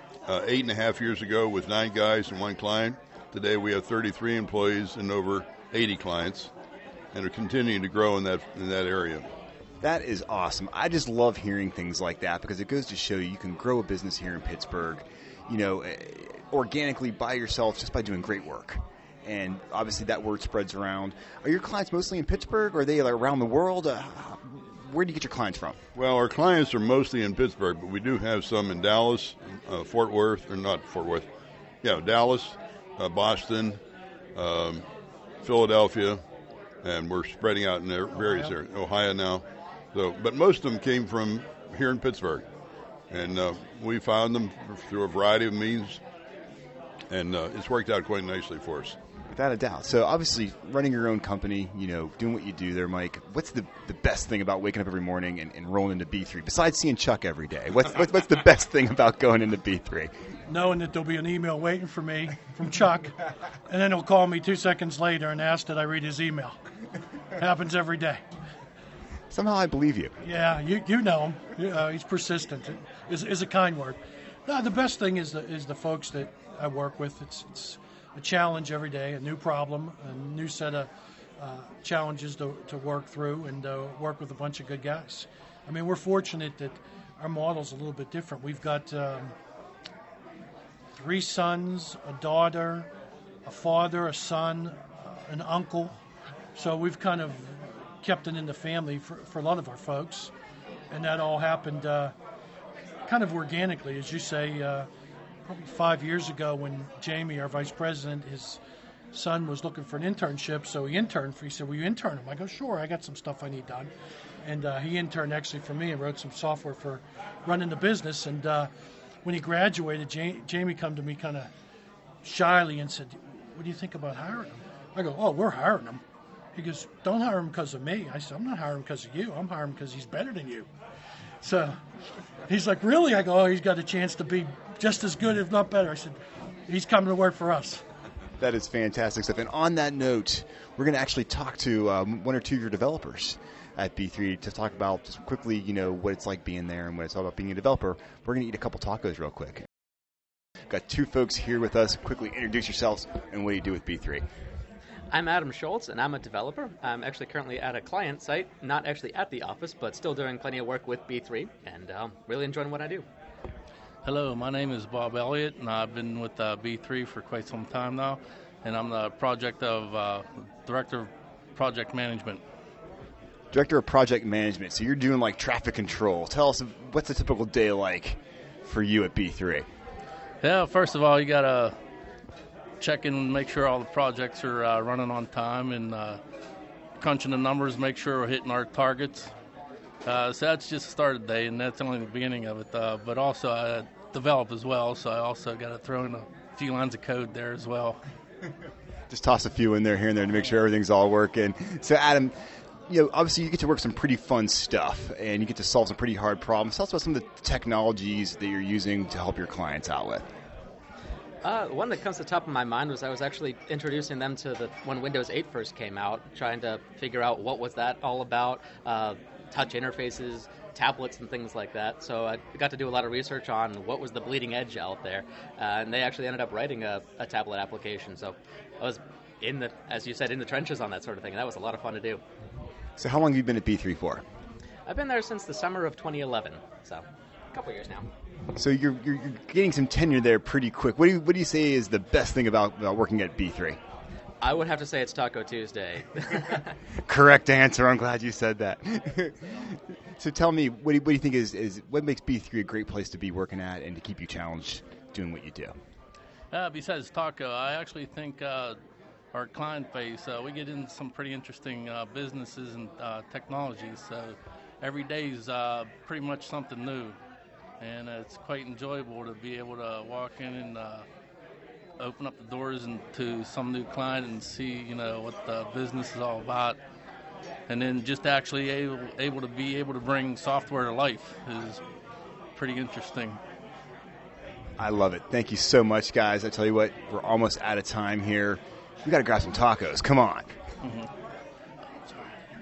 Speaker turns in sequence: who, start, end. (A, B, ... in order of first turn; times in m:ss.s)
0:00.3-0:06.5 A
0:07.1-0:09.3 A
0:09.8-0:25.8 B
0:26.0-0:31.3 A
0:31.8-0:33.8 A
0:34.4-0:34.9 A
0:35.4-0:36.2 A
0:36.8-0:42.5 A
0:38.1-0:38.5 C
0:43.1-0:46.0 A
0:47.1-0:49.0 A
0:49.3-1:00.1 B
1:00.5-1:06.6 C
1:07.4-1:08.2 C
1:09.3-1:10.1 B
1:10.2-1:29.4 C
1:31.0-1:32.9 C
1:33.5-1:36.0 C
1:36.5-1:40.3 C
1:40.9-1:42.1 C
1:43.1-1:44.9 C
1:45.4-1:48.6 C
1:49.1-1:53.9 C
1:54.4-1:58.7 C
1:59.2-2:01.5 C
2:02.2-2:06.0 C
2:06.5-2:10.7 C
2:11.4-2:11.8 C
2:12.5-2:17.8 C
2:18.4-2:29.6 B
2:30.7-2:34.2 B
2:35.2-2:43.0 D
2:44.0-2:52.4 E
2:53.5-2:59.7 B
3:00.4-3:01.7 E
3:02.8-3:06.2 E
3:07.0-3:09.3 E
3:10.0-3:18.0 E
3:19.1-3:22.3 B
3:22.9-3:30.3 B
3:31.5-3:52.2 D
3:53.0-3:54.2 B
3:54.9-3:58.1 D
3:58.6-4:03.8 B
4:04.4-4:06.6 D
4:07.1-4:09.6 B
4:10.2-4:15.7 B
4:16.5-4:18.8 E
4:19.3-4:27.2 E
4:27.8-4:31.0 E
4:32.0-4:36.8 E
4:37.7-4:41.8 E
4:42.6-4:43.4 E
4:44.8-4:50.5 B
4:50.8-4:51.1 E
4:52.1-4:52.3 E